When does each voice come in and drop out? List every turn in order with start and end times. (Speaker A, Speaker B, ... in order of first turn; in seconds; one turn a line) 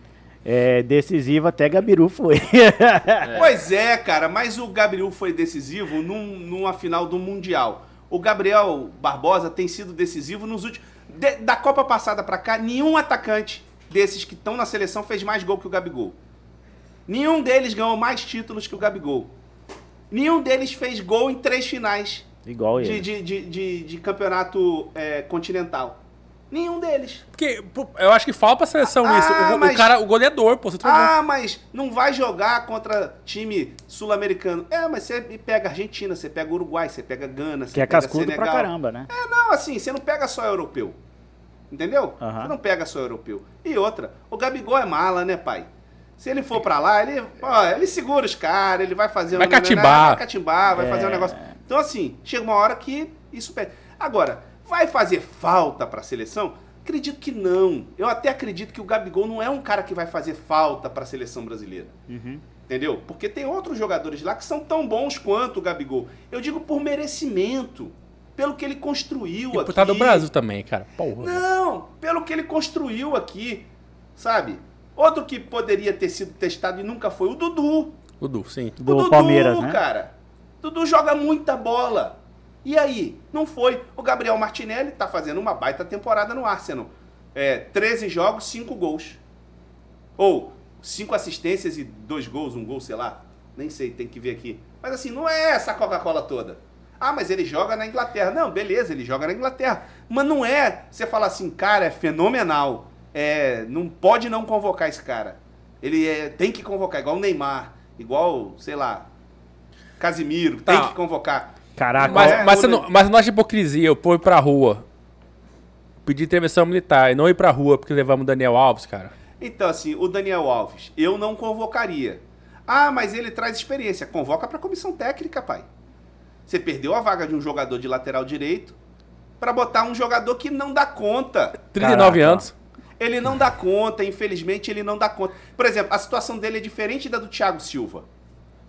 Speaker A: 0.5-3.4
Speaker B: 3.2-3.5
Speaker C: 3.4-16.2
Speaker C: 17.1-19.3
Speaker C: 20.1-22.3
Speaker A: 22.5-23.1
Speaker C: 22.8-27.2
Speaker B: 27.4-31.1
Speaker C: 28.9-30.0
Speaker C: 30.8-41.0
Speaker A: 37.7-39.1
Speaker C: 41.7-61.9
Speaker A: 42.2-42.5
Speaker B: 49.3-50.2
Speaker A: 50.7-51.6
Speaker A: 62.1-62.4
Speaker C: 62.7-70.3
Speaker B: 69.5-71.4
Speaker C: 71.2-78.0
Speaker B: 78.2-78.8
Speaker A: 78.8-79.8
Speaker C: 78.8-89.2
Speaker C: 90.2-109.1
Speaker C: 110.0-112.9
Speaker B: 110.7-111.0
Speaker A: 111.8-112.5
Speaker B: 112.0-114.8
Speaker B: 116.1-119.1
Speaker C: 119.4-125.7
Speaker C: 126.5-128.8
Speaker C: 129.4-131.6
Speaker B: 131.7-132.5
Speaker A: 131.8-132.5
Speaker C: 133.0-138.1